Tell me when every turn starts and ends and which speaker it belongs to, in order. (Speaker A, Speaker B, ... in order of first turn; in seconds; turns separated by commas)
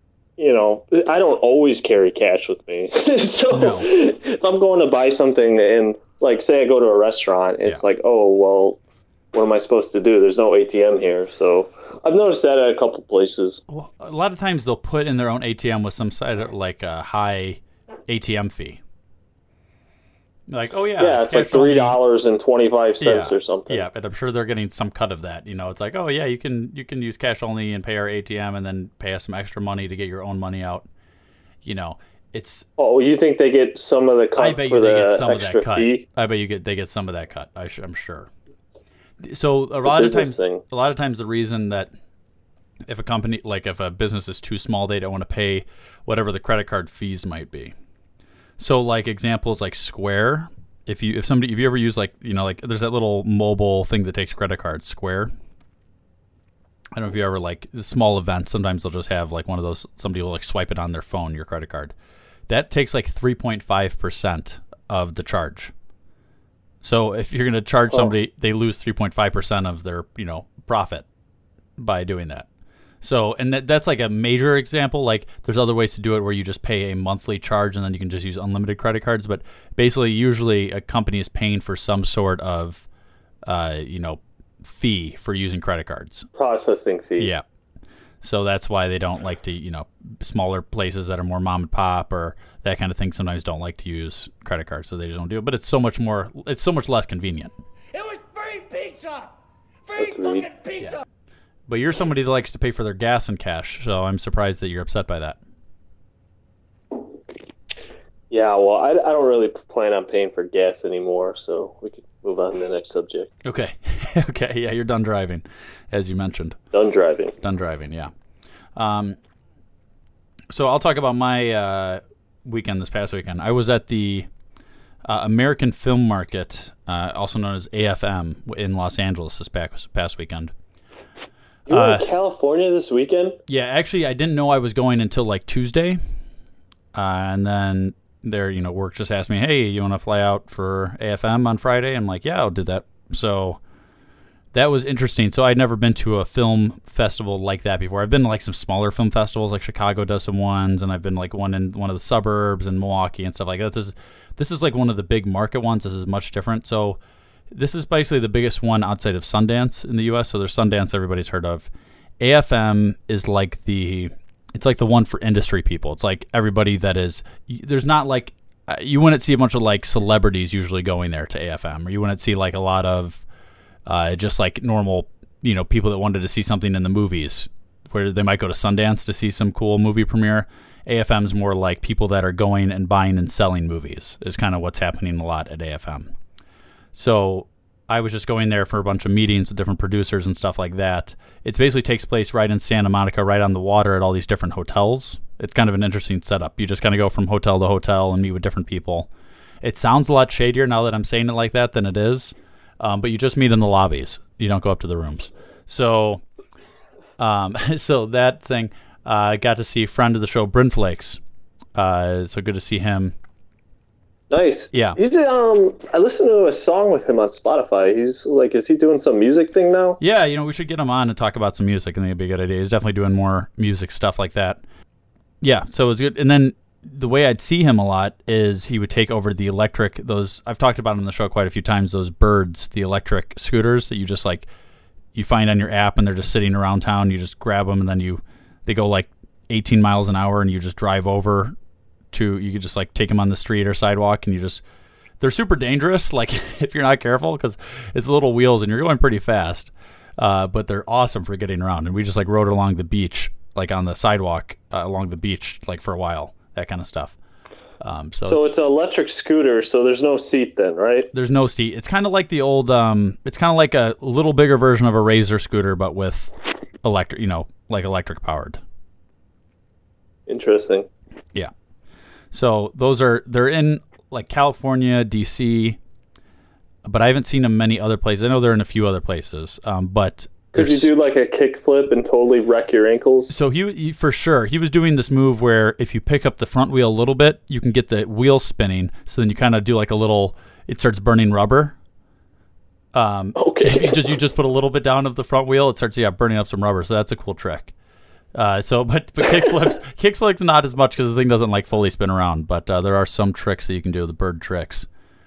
Speaker A: 0.4-8.8, Speaker B: 3.5-3.9, Speaker A: 9.3-13.6, Speaker B: 13.7-18.8, Speaker B: 20.5-22.0, Speaker A: 21.0-23.9, Speaker B: 23.0-30.9, Speaker B: 31.6-32.6, Speaker A: 32.8-36.0, Speaker B: 34.4-38.3, Speaker B: 39.2-41.9, Speaker A: 39.8-40.6, Speaker B: 42.9-47.7, Speaker B: 48.6-55.3, Speaker B: 56.9-61.9, Speaker B: 62.5-65.7, Speaker B: 66.8-71.0, Speaker B: 71.8-72.5, Speaker B: 73.0-82.8, Speaker B: 83.4-86.3, Speaker A: 86.3-87.3, Speaker B: 88.2-97.5, Speaker C: 97.9-99.3, Speaker C: 99.9-101.0, Speaker A: 100.0-100.5, Speaker B: 101.7-105.4, Speaker A: 108.3-113.3, Speaker B: 113.4-116.6, Speaker A: 116.7-117.3, Speaker B: 117.4-118.1, Speaker B: 118.8-119.2, Speaker B: 120.5-124.3, Speaker B: 125.0-130.5, Speaker A: 131.7-133.3, Speaker B: 131.7-132.1, Speaker B: 133.5-136.0, Speaker B: 136.9-143.6, Speaker B: 144.5-157.0, Speaker B: 157.5-161.7, Speaker B: 162.2-173.2, Speaker B: 173.8-186.1, Speaker B: 186.9-199.1, Speaker B: 199.6-206.2, Speaker B: 207.2-211.2, Speaker B: 211.7-213.1, Speaker A: 214.3-220.0, Speaker B: 214.7-215.0, Speaker B: 220.0-224.6, Speaker B: 225.4-234.5, Speaker B: 235.1-241.5, Speaker B: 242.1-244.6, Speaker B: 245.2-257.1, Speaker B: 257.8-258.5, Speaker A: 258.2-261.1, Speaker B: 261.1-266.3, Speaker B: 266.8-268.6, Speaker A: 270.3-270.9, Speaker B: 272.3-275.8, Speaker B: 276.8-280.9, Speaker A: 280.5-283.3, Speaker B: 283.3-291.7, Speaker B: 292.9-297.7, Speaker A: 293.4-294.0, Speaker B: 298.3-304.9